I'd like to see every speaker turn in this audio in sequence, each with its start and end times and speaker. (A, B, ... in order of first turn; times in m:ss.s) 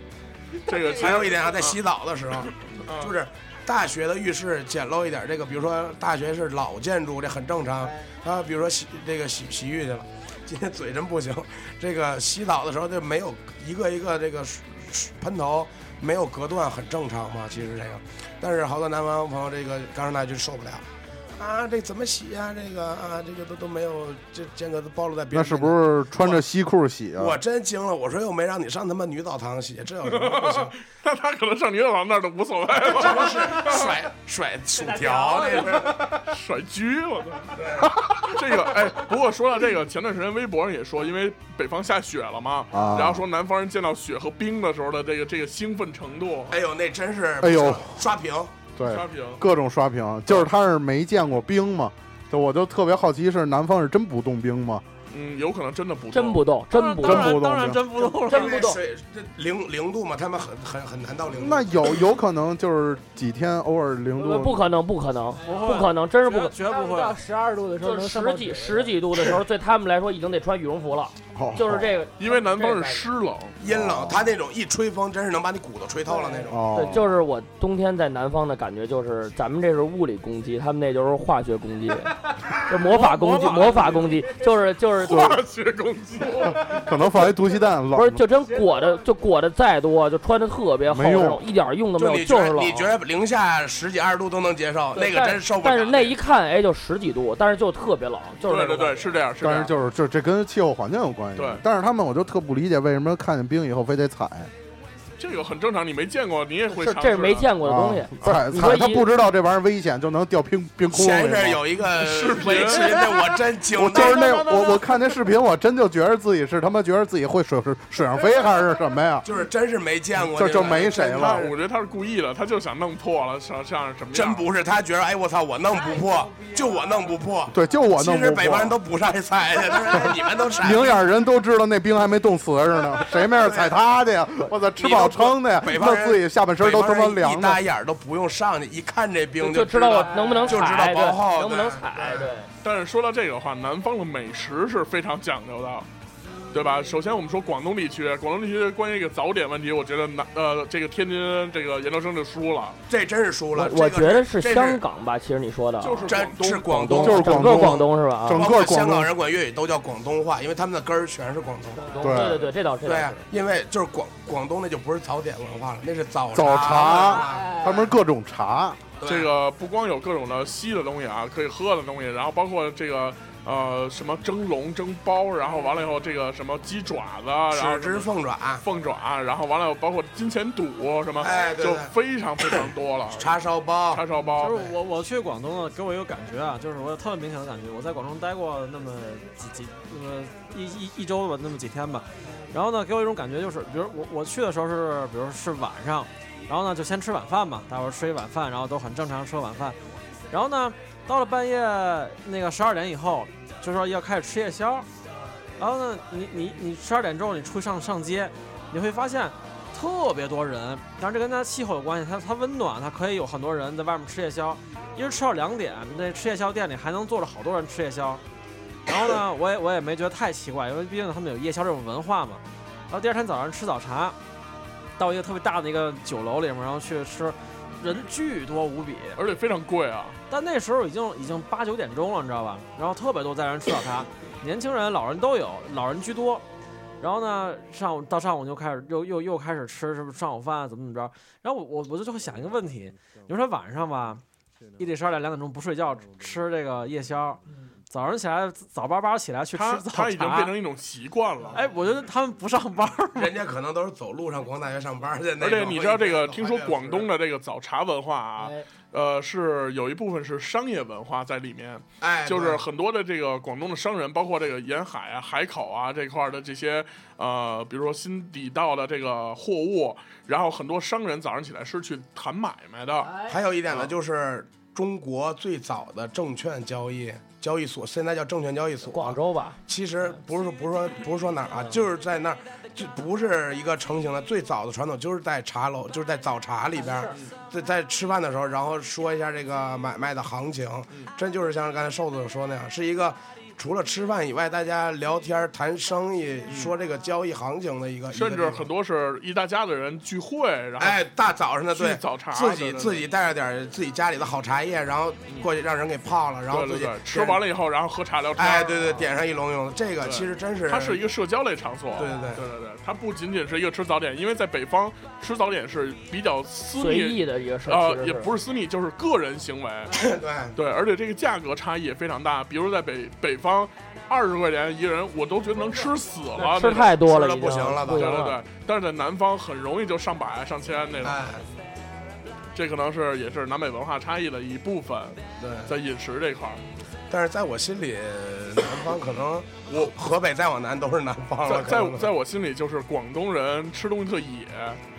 0:00.6-0:01.3 A
0:00.6-0:01.8 B
0:00.9-0:26.4 C
0:02.4-0:03.2 B
0:25.3-0:27.4 D
0:27.2-0:30.8 C
0:30.0-0:34.0 B
0:32.8-0:36.0 C
0:34.8-0:36.1 A
0:35.6-0:46.6 B
0:37.5-0:38.0 C
0:42.7-0:43.2 D
0:46.5-0:48.5 C
0:47.4-0:48.0 D
0:48.8-0:54.8 D
0:48.8-0:49.4 B
0:55.1-0:56.4 B
0:56.1-0:57.4 E
0:56.7-0:58.6 F
0:57.0-0:57.8 D
0:58.1-0:58.8 E
0:58.2-1:01.9 C
1:01.3-1:04.6 D
1:04.2-1:06.6 E
1:05.3-1:05.8 A
1:05.4-1:07.2 F
1:06.6-1:08.9 A
1:07.8-1:13.1 E
1:11.4-1:11.9 D
1:12.2-1:13.6 B
1:13.6-1:16.7 C
1:13.6-1:14.3 D
1:16.0-1:16.6 A
1:16.5-1:17.1 D
1:16.7-1:25.4 E
1:22.9-1:24.2 F
1:25.0-1:26.6 B
1:25.1-1:25.4 D
1:26.4-1:28.2 D
1:27.9-1:32.9 E
1:28.4-1:29.0 A
1:30.9-1:31.4 D
1:32.0-1:36.2 C
1:34.9-1:39.1 E
1:38.4-1:39.7 B
1:39.4-1:44.5 D
1:41.4-1:41.6 B
1:45.2-1:47.5 B
1:46.7-1:49.1 E
1:47.6-1:51.6 D
1:50.9-1:54.3 C
1:51.9-1:53.2 B
1:53.7-1:59.3 D
1:54.0-1:55.2 A
1:58.3-1:58.6 A
1:59.2-2:01.6 C
2:00.3-2:01.4 D
2:00.4-2:04.4 B
2:04.1-2:11.0 C
2:05.8-2:07.1 A
2:07.5-2:08.8 D
2:09.9-2:17.6 D
2:13.3-2:13.8 C
2:14.8-2:22.4 C
2:19.4-2:22.5 E
2:20.0-2:20.6 A
2:22.6-2:25.9 B
2:26.5-2:32.8 B
2:32.9-2:34.8 C
2:33.5-2:36.1 E
2:35.8-2:37.2 B
2:36.0-2:42.0 C
2:36.7-2:38.4 E
2:37.0-2:39.1 D
2:41.8-2:42.4 A
2:42.0-2:43.2 E
2:42.0-2:42.5 D
2:42.8-2:47.6 C
2:46.3-2:48.8 D
2:46.8-2:47.9 A
2:49.0-2:49.3 C
2:49.0-2:58.1 B
2:57.5-2:58.6 C
2:58.6-3:03.4 B
3:01.2-3:01.9 C
3:03.1-3:04.7 C
3:03.9-3:04.7 B
3:04.4-3:19.8 F
3:12.2-3:12.5 A
3:20.3-3:24.9 F
3:25.6-3:38.2 F
3:38.9-3:44.2 F
3:45.0-3:49.2 F
3:49.2-3:50.2 B
3:50.3-3:56.4 F
3:57.0-4:04.2 F
4:04.8-4:10.5 F
4:09.5-4:11.7 B
4:11.5-4:13.3 F
4:13.1-4:17.1 C
4:15.4-4:33.1 B
4:18.4-4:18.7 A
4:22.0-4:22.6 C
4:33.0-4:33.4 A
4:33.2-4:58.7 C
4:38.9-4:39.6 E
4:46.8-4:47.1 A
4:56.5-4:56.7 B
4:58.1-5:01.1 B
5:00.8-5:07.4 C
5:01.7-5:03.0 B
5:06.5-5:09.1 B
5:08.3-5:11.0 C
5:10.0-5:20.0 B
5:12.0-5:12.4 C
5:16.7-5:18.3 E
5:19.9-5:20.6 C
5:20.5-5:27.0 B
5:26.4-5:28.4 E
5:27.0-5:28.1 C
5:27.9-5:31.2 B
5:31.0-5:31.5 C
5:32.5-5:36.6 B
5:35.4-5:35.7 C
5:37.1-5:42.1 C
5:39.7-5:40.0 B
5:41.4-5:44.8 B